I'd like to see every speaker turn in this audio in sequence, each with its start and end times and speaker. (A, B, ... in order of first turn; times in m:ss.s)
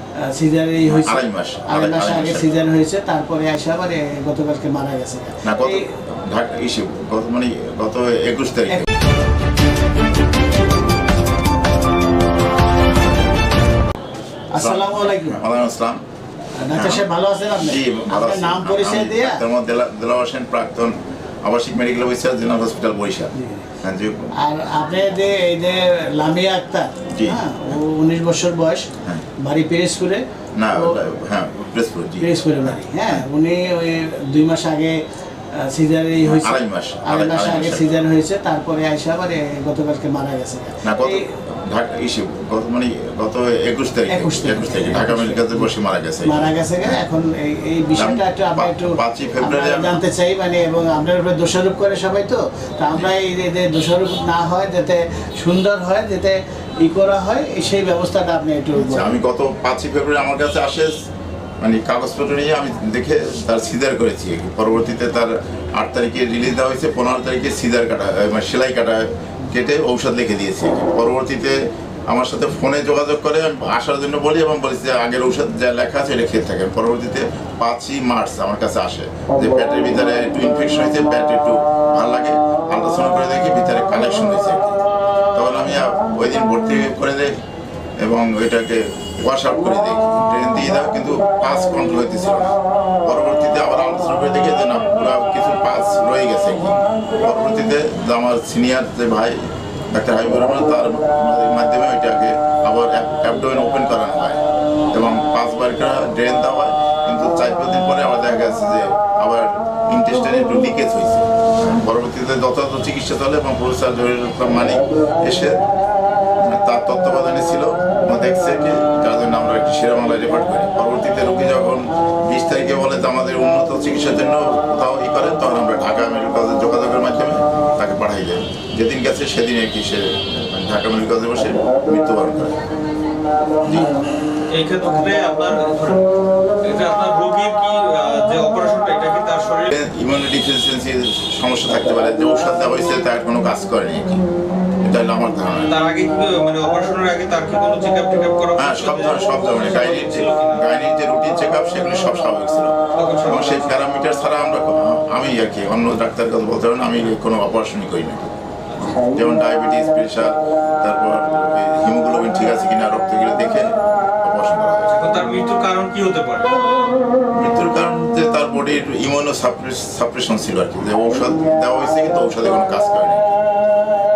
0:00.2-0:05.8 A
0:00.8-0:02.5 B
0:05.4-0:08.9 B
0:14.5-0:15.4 A
0:14.6-0:16.0 B
0:16.6-0:19.4 A
0:16.7-0:24.3 B
0:23.3-0:23.7 A
0:24.4-0:31.0 A
0:27.1-0:27.4 B
0:30.6-0:33.2 B
0:32.2-0:35.0 A
0:35.5-0:41.2 A
0:36.2-0:37.9 B
0:40.8-0:47.0 B
0:44.1-0:45.7 A
0:46.2-0:59.2 A
0:47.9-0:50.0 B
0:58.8-1:00.9 B
1:01.6-1:11.6 B
1:12.1-1:24.8 B
1:25.3-1:27.3 B
1:28.0-1:32.5 B
1:33.0-1:39.4 B
1:39.9-1:55.6 B
1:56.5-2:12.6 B
2:13.6-2:14.0 B
2:14.5-2:16.0 C
2:16.6-2:19.7 C
2:19.7-2:24.2 B
2:24.8-2:25.7 B
2:25.7-2:30.6 C
2:28.6-2:32.7 B
2:32.9-2:33.8 C
2:33.2-2:38.3 B
2:38.7-2:39.0 C
2:39.0-2:44.9 B
2:44.9-2:46.6 C
2:47.3-2:53.4 B